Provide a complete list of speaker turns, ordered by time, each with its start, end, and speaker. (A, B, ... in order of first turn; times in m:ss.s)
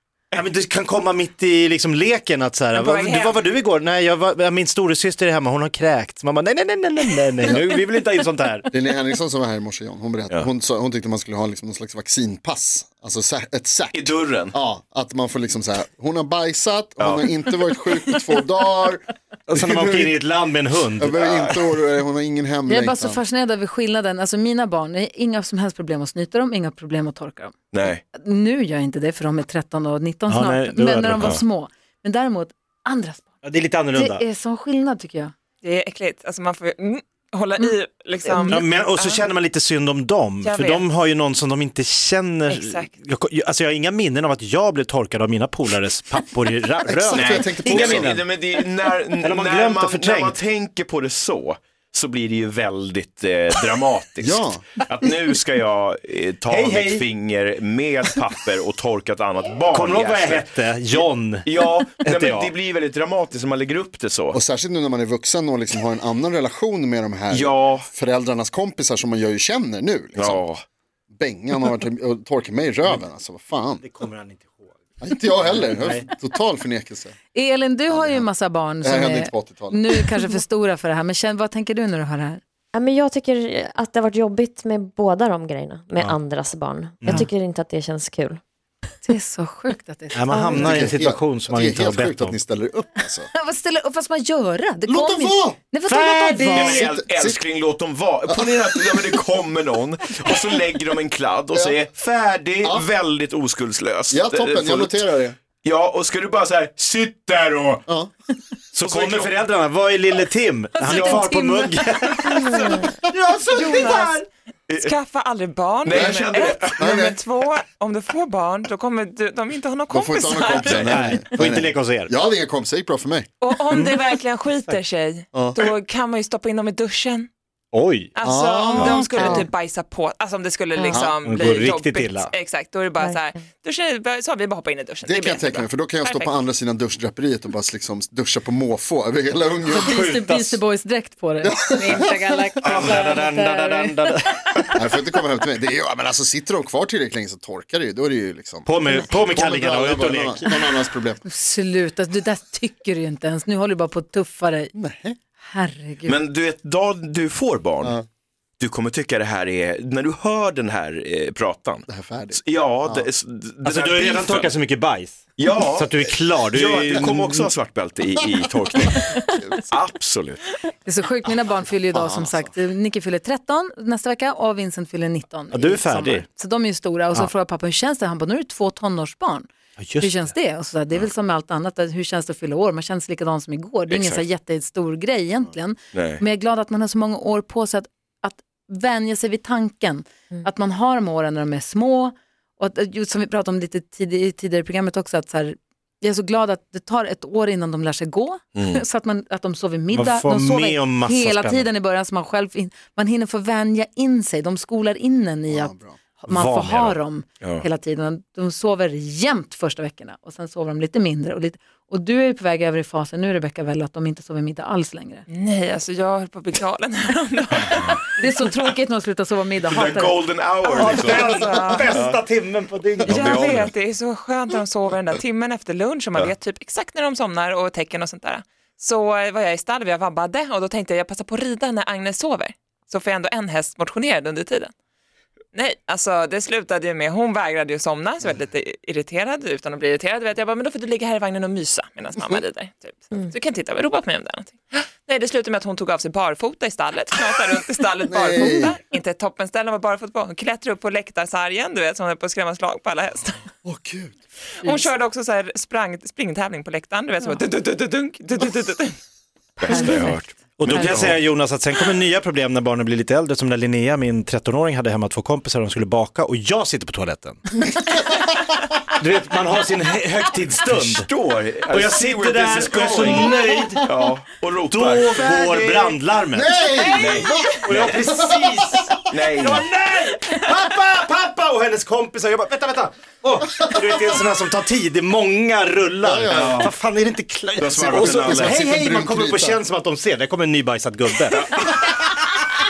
0:00.3-0:08.7 A
0:02.7-0:03.4 B
0:07.4-0:07.8 C
0:08.7-0:20.2 C
0:13.9-0:14.5 D
0:17.0-0:17.4 D
0:19.5-0:21.1 A
0:21.0-0:23.2 C
0:21.1-0:21.7 D
0:22.7-0:27.6 E
0:27.7-0:28.0 D
0:28.1-0:33.3 E
0:30.3-0:31.4 A
0:33.4-0:34.2 A
0:33.9-0:35.3 E
0:35.6-0:39.2 B
0:38.3-0:38.6 E
0:38.5-0:48.3 A
0:40.4-0:40.9 B
0:42.5-0:42.9 B
0:46.9-0:48.2 C
0:47.1-1:04.4 D
0:49.2-0:50.4 A
0:54.2-0:54.7 C
0:56.5-0:57.1 A
0:59.7-1:02.5 A
1:04.3-1:10.5 C
1:07.3-1:07.9 D
1:10.2-1:10.6 D
1:11.2-1:13.8 C
1:13.8-1:14.9 A
1:15.0-1:17.2 C
1:15.4-1:16.1 A
1:17.3-1:22.4 E
1:17.9-1:18.3 C
1:18.8-1:20.1 C
1:22.7-1:28.4 F
1:29.0-1:30.2 E
1:30.1-1:32.4 A
1:30.5-1:33.3 C
1:33.3-1:36.9 E
1:34.9-1:35.6 C
1:35.9-1:45.1 D
1:36.5-1:37.4 C
1:38.3-1:39.2 C
1:41.5-1:41.8 C
1:42.6-1:42.9 C
1:44.1-1:45.4 C
1:45.6-1:47.8 D
1:48.7-1:54.3 A
1:48.8-1:49.4 D
1:50.8-1:51.5 D
1:50.8-1:51.8 B
1:52.2-1:52.6 D
1:53.5-1:54.2 B
1:54.7-1:54.9 D
1:54.8-2:01.2 B
1:55.8-1:56.9 D
1:55.9-1:57.2 C
1:59.9-2:03.3 C
2:00.6-2:01.0 D
2:00.8-2:02.1 A
2:03.4-2:07.3 B
2:05.3-2:05.6 C
2:07.7-2:08.1 A
2:08.2-2:16.4 B
2:08.2-2:09.5 C
2:08.8-2:09.4 A
2:11.2-2:12.3 A
2:15.1-2:20.0 C
2:19.7-2:24.1 E
2:19.9-2:20.6 A
2:21.4-2:22.1 C
2:22.6-2:24.7 A
2:24.8-2:31.2 C
2:28.7-2:30.4 A
2:31.2-2:34.7 E
2:34.8-2:35.2 C
2:35.4-2:36.2 E
2:36.1-2:38.0 D
2:38.6-2:44.5 D
2:41.9-2:43.1 C
2:43.6-2:47.5 A
2:45.4-2:50.4 D
2:49.3-2:49.7 C
2:50.8-2:59.5 E
2:51.9-2:52.4 C
2:55.5-2:56.2 A
2:59.8-3:00.3 A
3:00.0-3:35.3 E
3:03.9-3:04.2 D
3:05.9-3:06.2 D
3:18.6-3:18.8 D
3:19.9-3:21.7 A
3:25.5-3:26.0 C
3:26.3-3:27.0 A
3:35.3-3:38.0 B
3:38.2-3:40.2 E
3:39.7-3:42.2 D
3:40.7-3:42.0 B
3:40.7-3:43.4 A
3:43.0-3:54.7 B
3:43.1-3:43.7 D
3:55.5-4:13.4 B
4:08.1-4:08.8 C
4:13.6-4:14.1 C
4:14.6-4:14.9 E
4:14.6-4:18.9 B
4:19.6-4:20.2 B
4:19.6-4:21.2 D
4:19.7-4:21.0 E
4:20.6-4:27.6 A
4:29.0-4:31.1 A
4:30.6-4:36.0 D
4:31.7-4:34.0 A
4:34.7-4:52.2 A
4:36.3-4:39.1 C
4:36.9-4:38.0 D
4:39.1-4:39.7 D
4:46.0-4:46.7 C
4:46.3-4:46.7 D
4:47.6-4:48.6 D
4:47.7-4:49.6 C
4:51.3-4:51.9 D